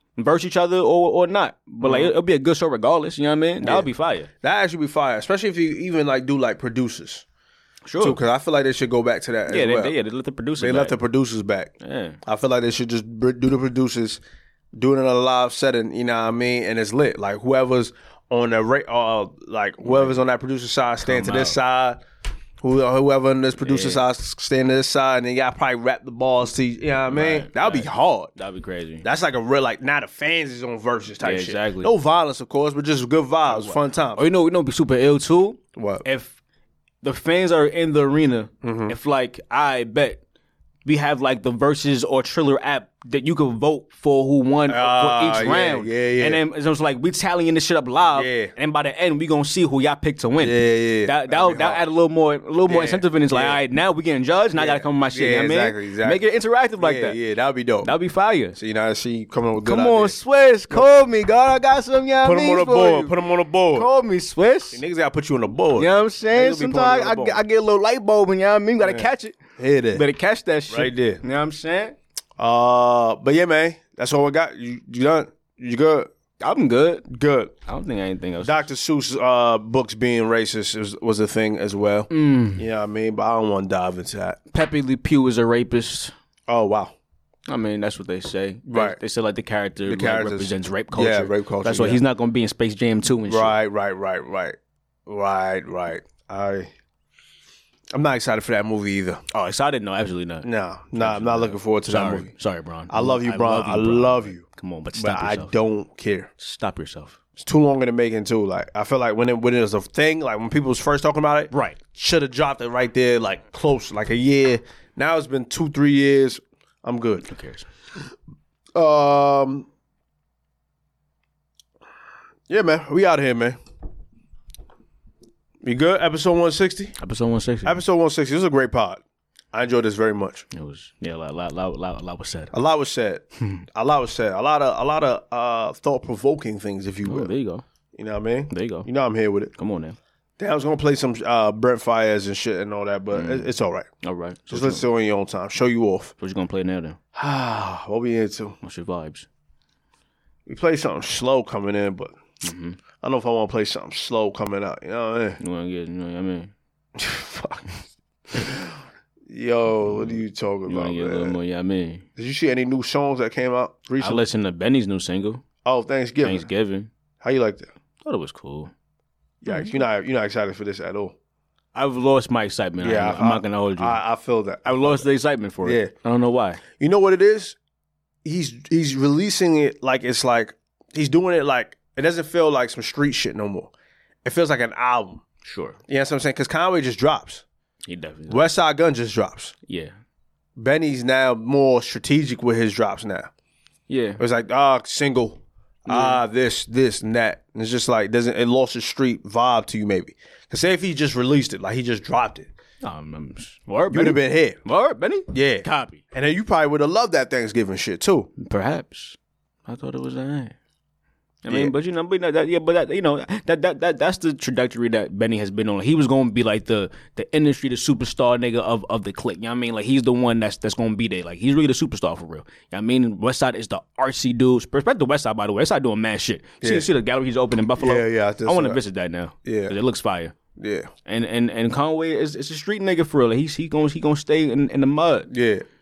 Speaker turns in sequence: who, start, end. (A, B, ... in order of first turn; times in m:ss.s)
0:00.2-0:04.3 A
0:01.8-0:02.1 B
0:03.6-0:03.9 B
0:04.4-0:07.2 B
0:07.8-0:08.2 A
0:08.0-0:09.9 B
0:09.5-0:11.0 A
0:10.6-0:11.7 B
0:11.8-0:12.2 A
0:12.2-0:14.2 B
0:14.7-0:22.0 B
0:19.8-0:20.2 A
0:21.0-0:21.6 A
0:22.6-0:28.3 B
0:23.6-0:24.0 A
0:27.1-0:29.0 A
0:29.0-0:34.2 B
0:31.2-0:31.9 A
0:33.5-0:36.3 A
0:35.7-0:36.0 B
0:37.0-0:40.2 A
0:38.6-0:39.0 B
0:40.8-0:57.2 A
0:44.7-0:46.4 B
0:48.1-0:48.5 B
0:50.4-0:51.8 B
0:52.7-0:53.6 B
0:54.6-0:56.3 B
0:56.8-0:57.9 B
0:57.8-0:58.6 A
0:58.5-1:00.2 B
0:59.6-1:03.2 A
1:02.2-1:03.9 B
1:03.7-1:04.8 A
1:04.7-1:07.4 B
1:05.8-1:09.4 A
1:08.8-1:10.0 B
1:09.9-1:12.0 A
1:10.7-1:11.2 B
1:12.4-1:16.1 B
1:16.4-1:17.0 A
1:17.1-1:17.5 B
1:17.6-1:18.7 A
1:18.4-1:24.4 B
1:22.1-1:22.6 A
1:24.5-1:26.1 A
1:26.5-1:27.0 B
1:27.4-1:33.6 A
1:28.6-1:29.0 B
1:29.8-1:32.0 B
1:33.2-1:36.7 B
1:37.9-1:39.2 B
1:39.3-1:45.5 A
1:40.4-1:42.3 B
1:42.9-1:46.3 B
1:46.4-1:47.2 A
1:47.4-1:57.3 B
1:51.5-1:51.8 A
1:57.3-1:57.7 A
1:58.7-1:59.7 B
2:02.5-2:03.6 B
2:05.6-2:07.0 B
2:07.0-2:07.8 A
2:07.6-2:09.0 B
2:09.5-2:10.4 B
2:10.5-2:12.5 A
2:12.5-2:17.3 B
2:17.0-2:17.6 A
2:17.9-2:19.5 B
2:18.5-2:18.9 A
2:19.5-2:20.0 A
2:20.4-2:23.9 B
2:23.1-2:23.5 A
2:24.0-2:24.8 A
2:24.5-2:26.1 B
2:26.2-2:27.0 A
2:27.1-2:28.6 B
2:28.6-2:29.3 A
2:30.4-2:32.1 B
2:32.4-2:32.8 A
2:33.0-2:35.4 B
2:35.4-2:36.5 A
2:37.0-2:37.7 B
2:38.3-2:38.7 B
2:39.3-2:41.4 B
2:39.8-2:42.0 A
2:42.2-2:44.2 B
2:44.0-2:45.4 A
2:45.6-2:46.4 B
2:46.2-2:46.9 A
2:47.2-2:47.7 B
2:48.0-2:48.7 A
2:49.4-2:51.1 B
2:49.5-2:49.8 A
2:51.7-2:54.0 A
2:52.8-2:55.1 B
2:54.6-2:56.6 A
2:55.6-2:55.9 B
2:56.8-2:57.6 B
2:58.2-3:03.7 B
3:04.2-3:05.2 B
3:05.4-3:05.8 A
3:05.9-3:07.4 B
3:07.8-3:08.4 A
3:08.3-3:09.5 B
3:09.7-3:09.9 A
3:10.6-3:13.3 B
3:13.9-3:14.2 A
3:14.2-3:22.5 B
3:15.9-3:16.2 A
3:22.8-3:26.0 A
3:23.9-3:24.6 B
3:25.3-3:28.3 B
3:28.4-3:30.5 A
3:31.4-3:50.3 A
3:46.6-3:46.9 B
3:47.8-3:48.8 B
3:49.4-3:49.8 B
3:50.6-3:50.9 B
3:51.0-3:55.3 A
3:55.3-3:55.6 B